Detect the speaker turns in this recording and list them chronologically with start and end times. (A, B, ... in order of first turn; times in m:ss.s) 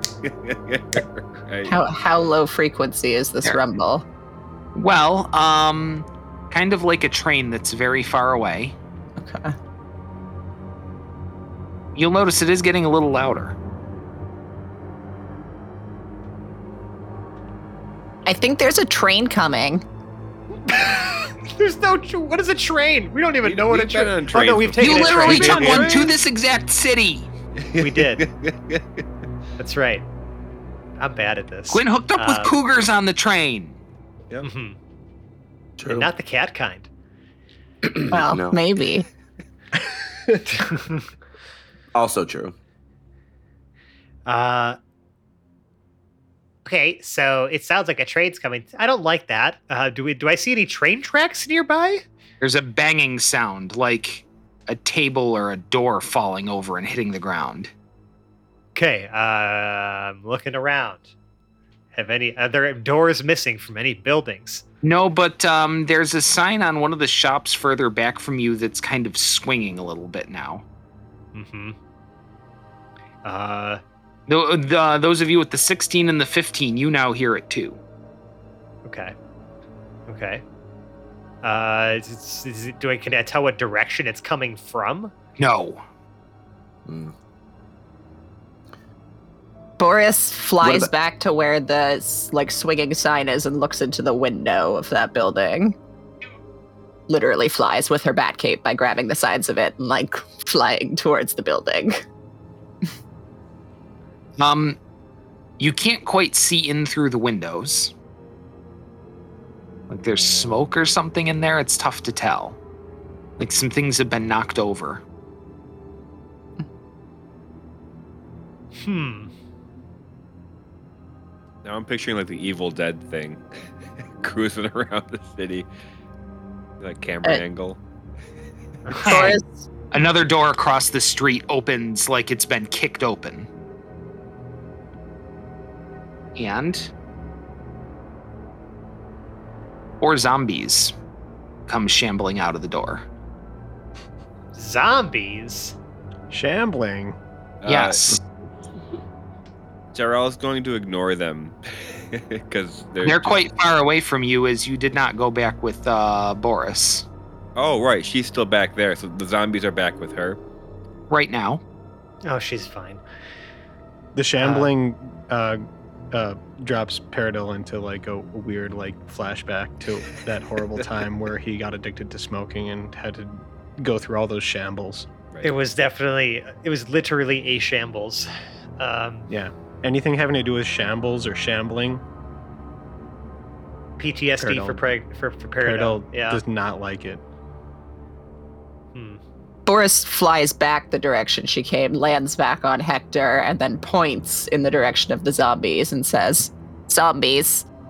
0:00.2-0:01.8 A
0:01.7-0:04.0 B
0:04.7-0:08.7 C
0:09.2-0:09.6 B
0:11.9-0:13.6 C
0:18.2-0:19.8 B
0:20.6-0:26.0 D
0:23.4-0:26.1 A
0:24.8-0:27.3 C
0:27.6-0:29.0 A
0:27.8-0:28.2 D
0:29.6-0:30.0 D
0:31.0-0:32.6 D
0:31.7-0:33.8 C
0:34.4-0:34.8 D
0:35.8-0:36.1 E
0:35.9-0:36.9 D
0:37.9-0:38.6 E
0:38.1-0:39.0 B
0:40.5-0:41.1 D
0:41.9-0:42.5 E
0:44.2-0:44.8 D
0:46.6-0:52.0 D
0:52.4-0:57.7 C
0:58.7-1:01.1 D
1:01.9-1:04.6 D
1:04.8-1:10.6 C
1:11.3-1:11.8 D
1:13.2-1:13.8 D
1:14.3-1:17.8 C
1:18.8-1:19.1 D
1:20.1-1:20.4 D
1:21.4-1:25.1 D
1:25.4-1:25.8 C
1:26.8-1:27.1 E
1:29.8-1:35.8 B
1:30.6-1:30.9 E
1:37.1-1:42.0 B
1:44.4-1:44.8 C
1:45.6-1:47.9 C
1:49.9-1:52.6 C
1:53.4-1:55.0 C
1:58.8-1:59.3 D
2:01.6-2:03.6 A
2:04.2-2:05.7 A
2:06.8-2:07.8 A
2:08.8-2:09.4 D
2:09.0-2:09.4 B
2:09.0-2:09.4 C
2:09.9-2:13.5 C
2:16.4-2:16.9 C
2:20.0-2:20.9 C
2:21.7-2:23.0 C
2:24.5-2:25.8 D
2:26.3-2:27.2 F
2:27.6-2:28.2 A
2:27.6-2:28.2 C
2:29.9-2:33.4 A
2:33.0-2:37.0 C
2:37.6-2:40.4 A
2:41.1-2:41.6 C
2:42.2-2:43.0 D
2:44.1-2:55.1 F
2:44.4-2:44.7 D
2:55.4-2:59.3 D
2:59.3-3:02.0 F
3:04.0-3:06.4 D
3:04.4-3:04.9 F
3:05.6-3:07.2 F
3:08.9-3:09.2 D
3:09.7-3:17.6 B